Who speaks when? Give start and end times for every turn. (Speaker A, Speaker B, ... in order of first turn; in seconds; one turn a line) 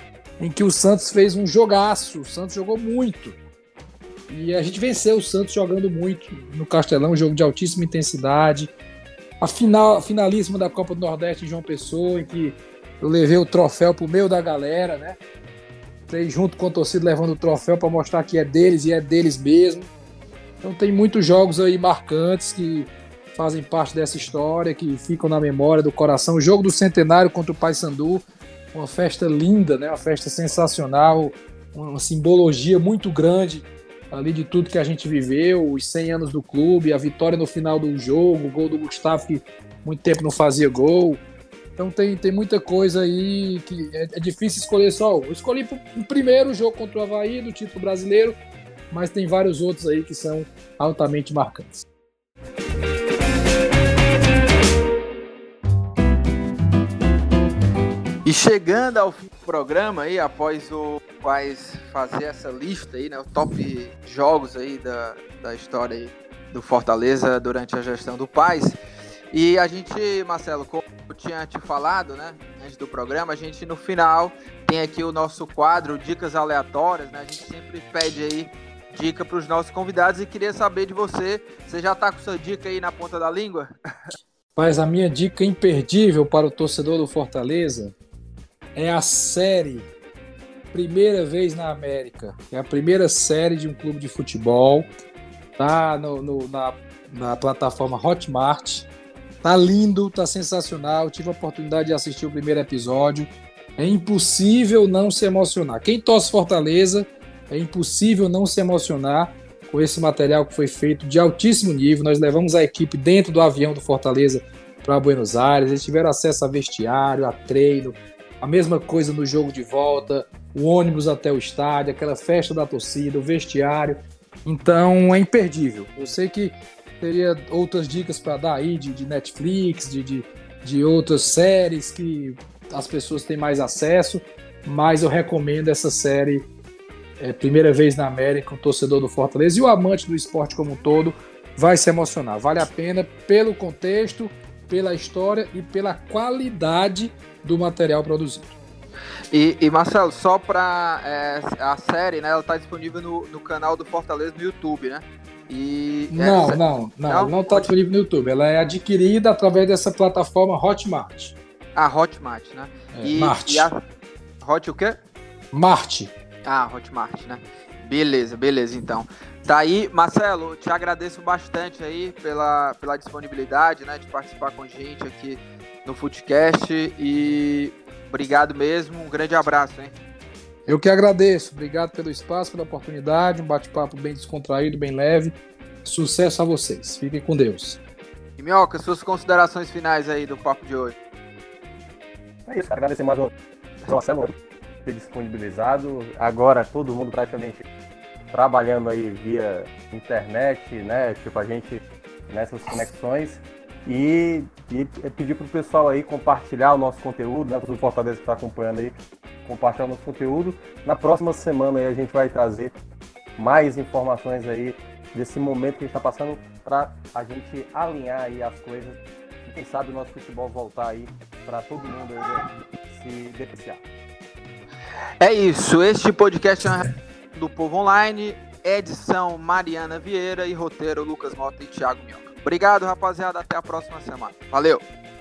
Speaker A: 0.4-3.4
Speaker A: 4.3-8.7
Speaker A: 9.4-15.2
Speaker A: 16.1-19.9
Speaker A: 20.6-41.2
Speaker A: 41.8-48.4
Speaker A: 48.9-51.9
Speaker B: 58.2-68.8
Speaker B: 69.3-83.7
Speaker A: 84.6-88.0
Speaker A: 88.8-89.9
Speaker A: 90.7-94.9
Speaker A: 95.6-98.9
Speaker A: 99.4-136.5
Speaker A: 137.2-148.6
Speaker B: 149.3-157.7
Speaker A: 156.1-161.4
Speaker B: 161.8-163.8
Speaker A: 162.9-163.7
Speaker B: 164.4-165.0
Speaker A: 165.5-166.1
Speaker B: 166.4-179.9
Speaker A: 180.7-187.8
Speaker B: 188.4-191.0
Speaker C: 192.5-193.3
Speaker C: 193.8-197.7
Speaker C: 198.3-212.8
Speaker C: 213.4-223.8
Speaker B: 225.2-234.8